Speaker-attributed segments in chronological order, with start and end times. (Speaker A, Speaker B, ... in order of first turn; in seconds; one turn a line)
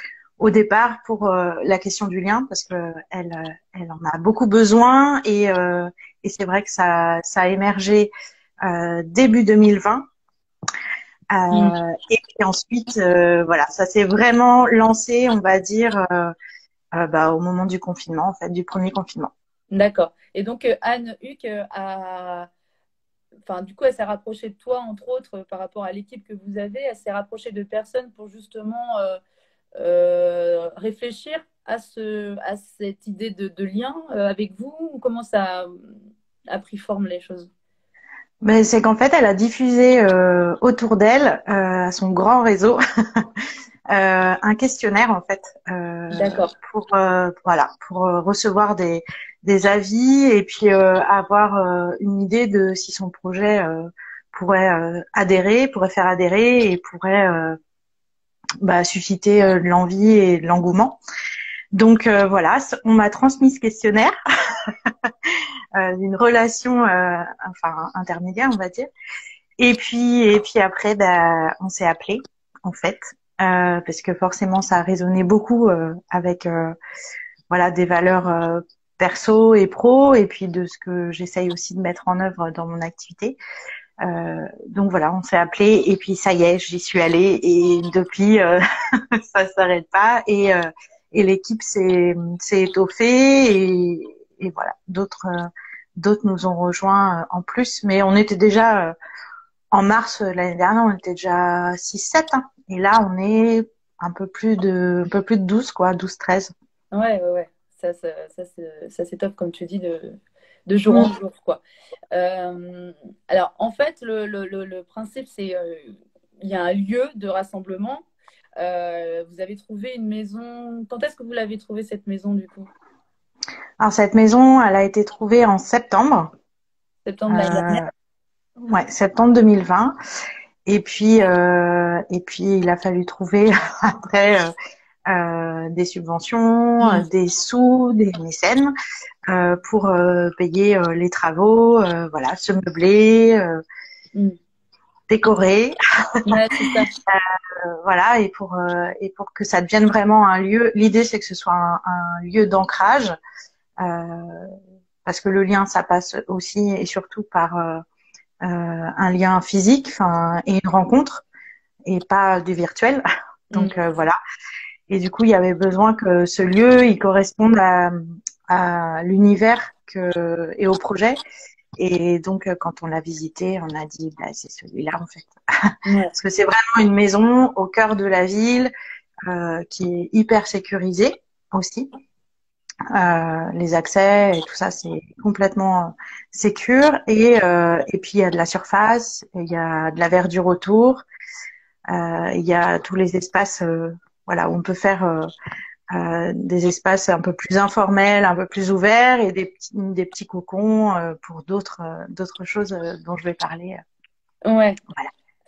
Speaker A: 0.4-8.1
Speaker A: 8.6-10.0
Speaker A: 11.3-16.3
Speaker A: 16.9-19.3
Speaker B: 19.7-22.5
Speaker B: 23.5-29.2
Speaker B: 29.8-35.8
Speaker B: 36.5-37.5
Speaker A: 38.4-43.3
Speaker A: 43.9-57.6
Speaker B: 46.1-46.5
Speaker A: 58.6-61.0
Speaker A: 61.7-64.2
Speaker A: 64.7-68.9
Speaker A: 69.6-76.8
Speaker A: 77.5-83.4
Speaker A: 84.0-88.6
Speaker A: 89.2-99.0
Speaker A: 99.7-106.5
Speaker B: 106.9-111.6
Speaker B: 112.1-118.0
Speaker B: 118.6-122.7
Speaker A: 123.8-126.3
Speaker B: 127.1-127.8
Speaker A: 127.3-127.9
Speaker A: 128.6-129.9
Speaker A: 130.7-134.5
Speaker A: 135.1-138.7
Speaker B: 136.8-137.1
Speaker A: 139.3-143.6
Speaker A: 145.1-145.8
Speaker B: 146.3-146.9
Speaker A: 147.1-153.2
Speaker A: 153.8-154.5
Speaker A: 155.1-157.8
Speaker A: 158.4-161.2
Speaker A: 161.9-164.2
Speaker B: 163.5-163.8
Speaker A: 164.9-171.2
Speaker A: 171.8-175.3
Speaker B: 175.9-176.1
Speaker A: 176.2-178.7
Speaker A: 179.3-181.9
Speaker A: 182.9-191.0
Speaker A: 191.9-195.3
Speaker A: 195.9-203.8
Speaker B: 204.4-204.8